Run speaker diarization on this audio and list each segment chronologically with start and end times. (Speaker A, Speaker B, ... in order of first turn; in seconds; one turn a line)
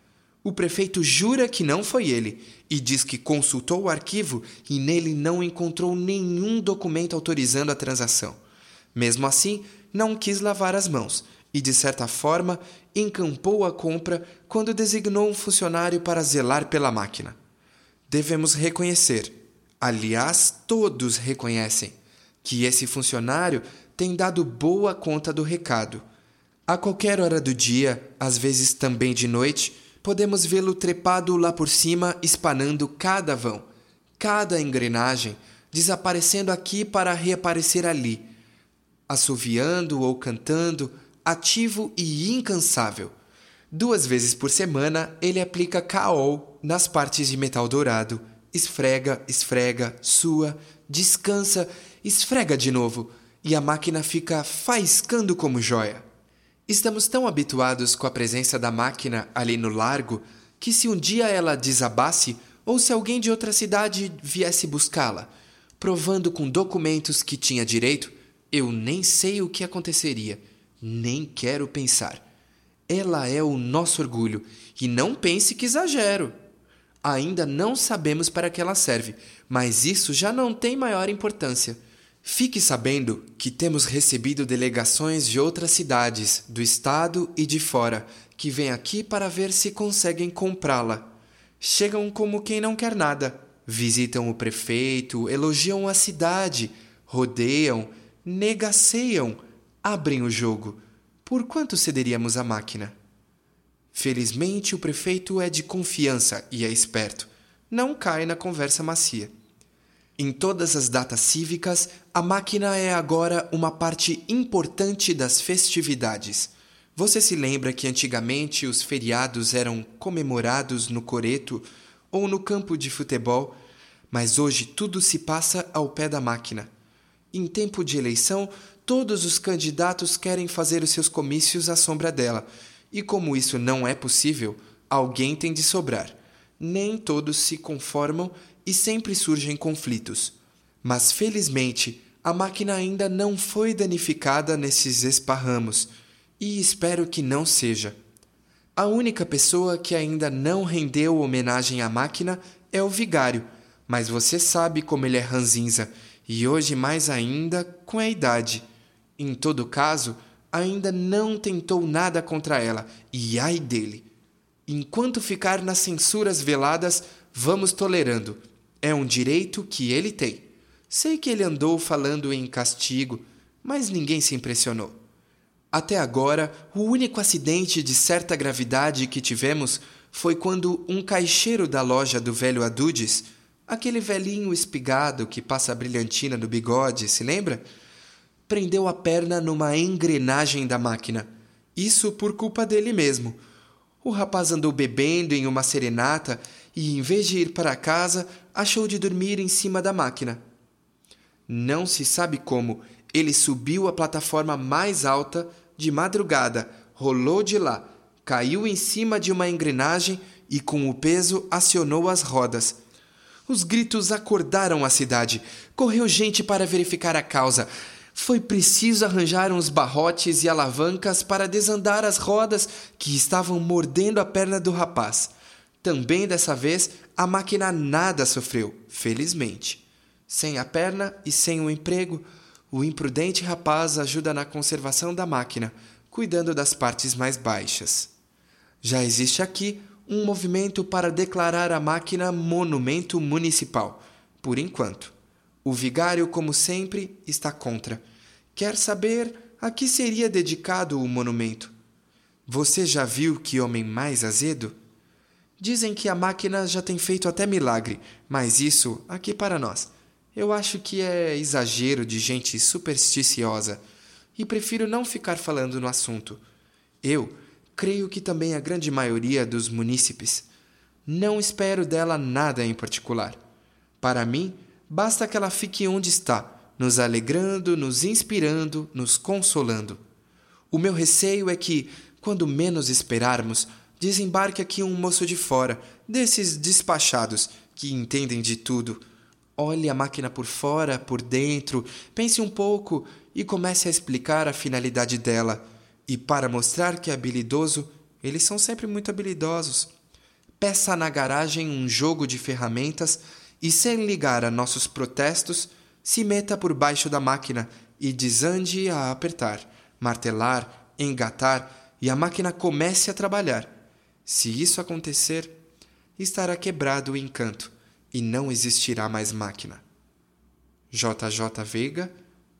Speaker A: 0.4-8.4
Speaker A: 8.9-17.4
Speaker A: 18.1-26.0
Speaker A: 26.7-33.7
Speaker A: 34.2-38.2
Speaker A: 39.1-43.1
Speaker A: 43.7-56.0
Speaker A: 56.7-72.2
Speaker A: 72.9-76.3
Speaker A: 77.0-103.0
Speaker A: 103.9-109.3
Speaker A: 110.2-123.6
Speaker A: 124.1-126.7
Speaker A: 127.3-148.0
Speaker A: 148.8-158.7
Speaker A: 159.2-164.1
Speaker A: 164.7-175.0
Speaker A: 175.7-187.7
Speaker A: 188.5-193.4
Speaker A: 194.0-200.4
Speaker A: 201.5-212.8
Speaker A: 213.5-238.1
Speaker A: 238.8-251.7
Speaker A: 252.4-254.8
Speaker A: 255.6-263.8
Speaker A: 264.4-266.4
Speaker A: 267.0-270.5
Speaker A: 271.1-273.4
Speaker A: 274.0-280.0
Speaker A: 280.7-289.0
Speaker A: 289.6-299.9
Speaker A: 300.6-315.6
Speaker A: 316.2-319.8
Speaker A: 320.9-322.1